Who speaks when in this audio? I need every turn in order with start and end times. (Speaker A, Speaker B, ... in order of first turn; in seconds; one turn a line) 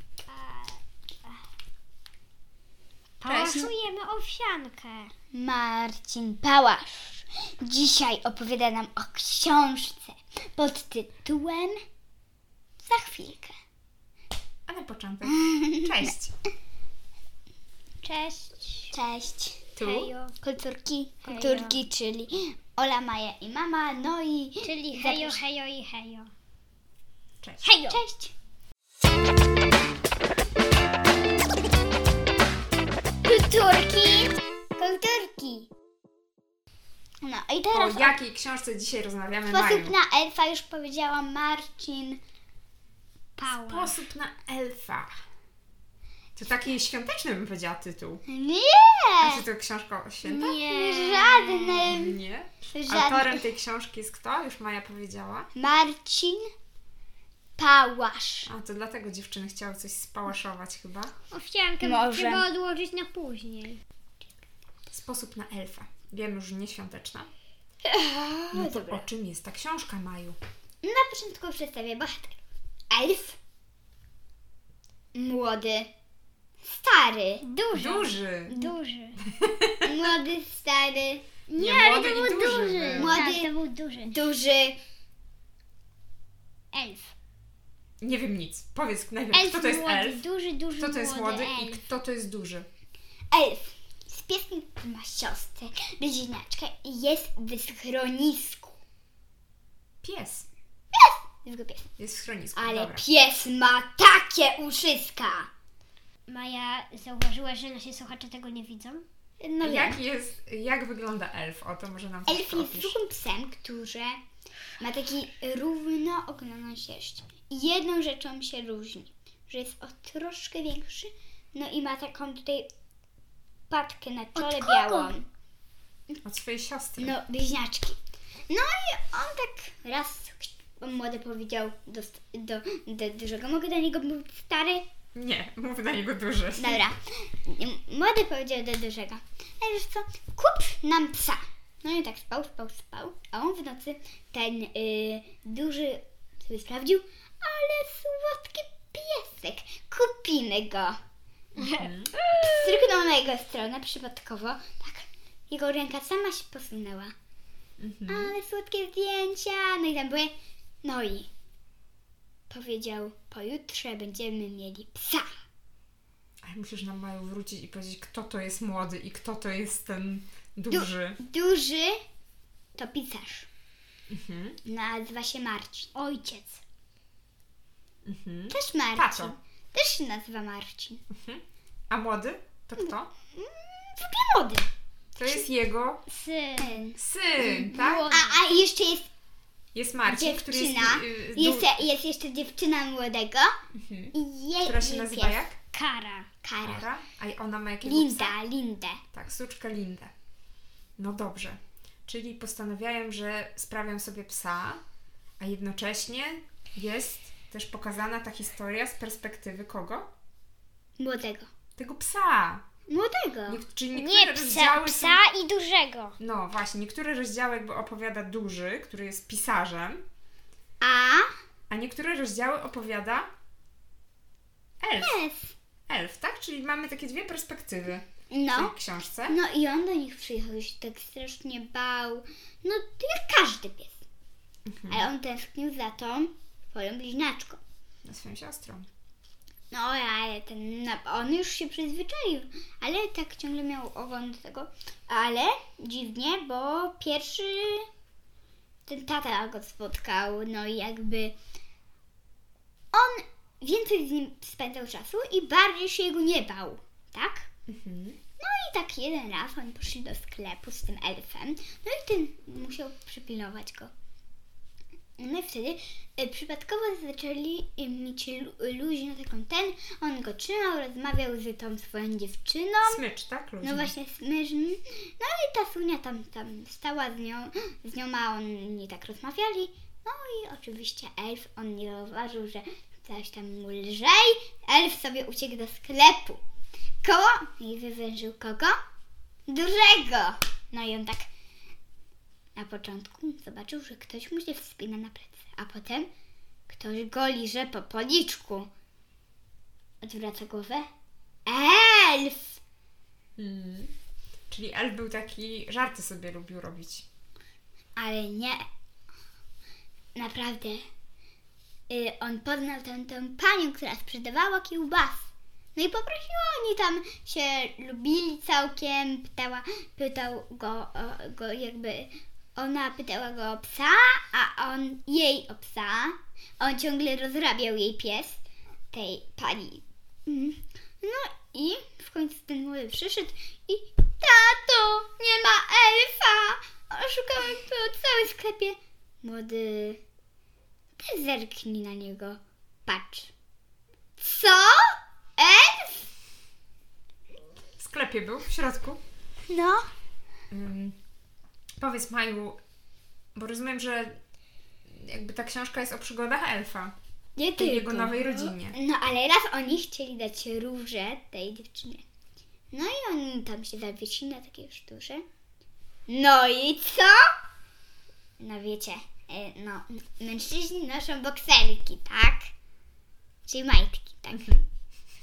Speaker A: 0.3-0.8
Speaker A: 3.2-5.1
Speaker B: 3.2-3.7
Speaker C: 5.3-11.8
Speaker C: 12.8-13.5
Speaker B: 14.7-16.3
Speaker C: 15.2-16.1
Speaker A: 18.0-18.9
Speaker C: 18.9-19.7
Speaker B: 19.8-20.1
Speaker A: 19.8-20.4
Speaker C: 20.4-25.4
Speaker A: 21.2-21.8
Speaker A: 24.6-26.3
Speaker B: 27.4-27.7
Speaker A: 27.6-28.0
Speaker C: 27.8-28.3
Speaker C: 33.2-35.7
Speaker C: 37.2-38.2
Speaker B: 37.7-39.9
Speaker C: 39.5-42.2
Speaker A: 43.4-43.9
Speaker B: 43.5-45.1
Speaker B: 46.4-48.2
Speaker C: 48.3-49.4
Speaker B: 49.2-50.5
Speaker A: 50.2-51.9
Speaker C: 50.4-52.2
Speaker B: 51.8-55.5
Speaker C: 52.7-53.4
Speaker C: 55.5-56.5
Speaker C: 57.6-58.5
Speaker B: 58.5-61.1
Speaker A: 61.3-63.8
Speaker C: 61.8-62.5
Speaker B: 64.9-67.3
Speaker C: 67.8-69.0
Speaker B: 68.5-70.4
Speaker C: 70.8-72.4
Speaker C: 72.9-73.4
Speaker C: 75.1-75.9
Speaker C: 76.6-77.4
Speaker A: 77.4-79.2
Speaker B: 77.7-78.6
Speaker B: 79.2-79.8
Speaker C: 79.8-81.2
Speaker A: 81.5-84.2
Speaker B: 81.6-83.2
Speaker C: 82.9-83.5
Speaker C: 84.1-84.8
Speaker A: 86.7-87.1
Speaker B: 88.0-90.2
Speaker A: 89.3-91.8
Speaker B: 90.8-92.7
Speaker C: 93.3-98.8
Speaker B: 100.0-100.5
Speaker C: 100.9-101.9
Speaker B: 102.0-103.1
Speaker C: 102.5-105.5
Speaker A: 106.3-109.0
Speaker C: 109.4-110.0
Speaker B: 109.6-113.0
Speaker C: 112.3-114.2
Speaker C: 114.8-122.7
Speaker C: 123.7-125.3
Speaker A: 124.3-125.1
Speaker B: 126.2-127.2
Speaker C: 127.0-128.0
Speaker C: 128.5-134.9
Speaker B: 135.2-136.8
Speaker C: 136.6-151.0
Speaker B: 151.6-152.1
Speaker A: 151.6-153.0
Speaker C: 152.4-157.1
Speaker B: 157.8-158.3
Speaker C: 158.1-161.3
Speaker C: 162.5-165.3
Speaker B: 166.4-171.2
Speaker C: 170.7-172.0
Speaker C: 172.8-173.5
Speaker B: 174.1-174.6
Speaker C: 174.7-175.9
Speaker A: 175.9-176.6
Speaker B: 178.1-179.4
Speaker C: 178.5-181.1
Speaker B: 181.1-183.1
Speaker C: 182.8-184.7
Speaker B: 185.2-186.0
Speaker A: 186.1-186.8
Speaker C: 186.6-189.1
Speaker B: 187.0-188.1
Speaker A: 187.7-188.4
Speaker B: 189.7-191.9
Speaker C: 190.1-193.5
Speaker B: 193.7-195.6
Speaker C: 194.1-195.5
Speaker A: 195.7-196.3
Speaker C: 196.4-196.9
Speaker B: 196.7-198.4
Speaker C: 197.8-199.0
Speaker B: 199.1-200.1
Speaker B: 201.0-204.8
Speaker B: 205.4-210.1
Speaker C: 211.0-211.5
Speaker B: 211.8-212.6
Speaker C: 212.9-213.6
Speaker B: 213.5-215.2
Speaker A: 213.9-216.2
Speaker B: 216.2-220.0
Speaker C: 220.8-221.3
Speaker B: 221.7-223.3
Speaker B: 224.8-225.2
Speaker C: 224.9-225.5
Speaker B: 225.9-229.4
Speaker C: 228.3-228.8
Speaker C: 229.3-234.0
Speaker B: 234.7-235.1
Speaker C: 234.9-237.6
Speaker B: 238.1-238.9
Speaker C: 239.7-247.9
Speaker C: 248.9-251.4
Speaker C: 252.9-257.5
Speaker B: 257.7-258.2
Speaker C: 258.4-263.9
Speaker C: 265.2-273.0
Speaker B: 272.8-273.9
Speaker C: 273.6-286.4
Speaker C: 287.0-288.8
Speaker C: 289.5-291.3
Speaker C: 292.6-296.1
Speaker C: 296.7-298.7
Speaker C: 300.0-300.9
Speaker C: 301.5-302.6
Speaker B: 303.4-303.9
Speaker B: 304.5-307.1
Speaker C: 308.0-308.6
Speaker C: 310.1-310.9
Speaker C: 311.9-328.4
Speaker C: 328.9-340.0
Speaker C: 341.0-343.3
Speaker C: 344.2-346.1
Speaker B: 347.8-349.0
Speaker C: 349.5-349.9
Speaker B: 350.5-350.9
Speaker B: 351.8-352.6
Speaker B: 353.4-354.2
Speaker B: 354.9-356.9
Speaker C: 357.4-362.0
Speaker B: 357.6-358.8
Speaker C: 362.7-365.2
Speaker C: 366.1-367.3
Speaker C: 368.4-372.5
Speaker C: 373.5-374.6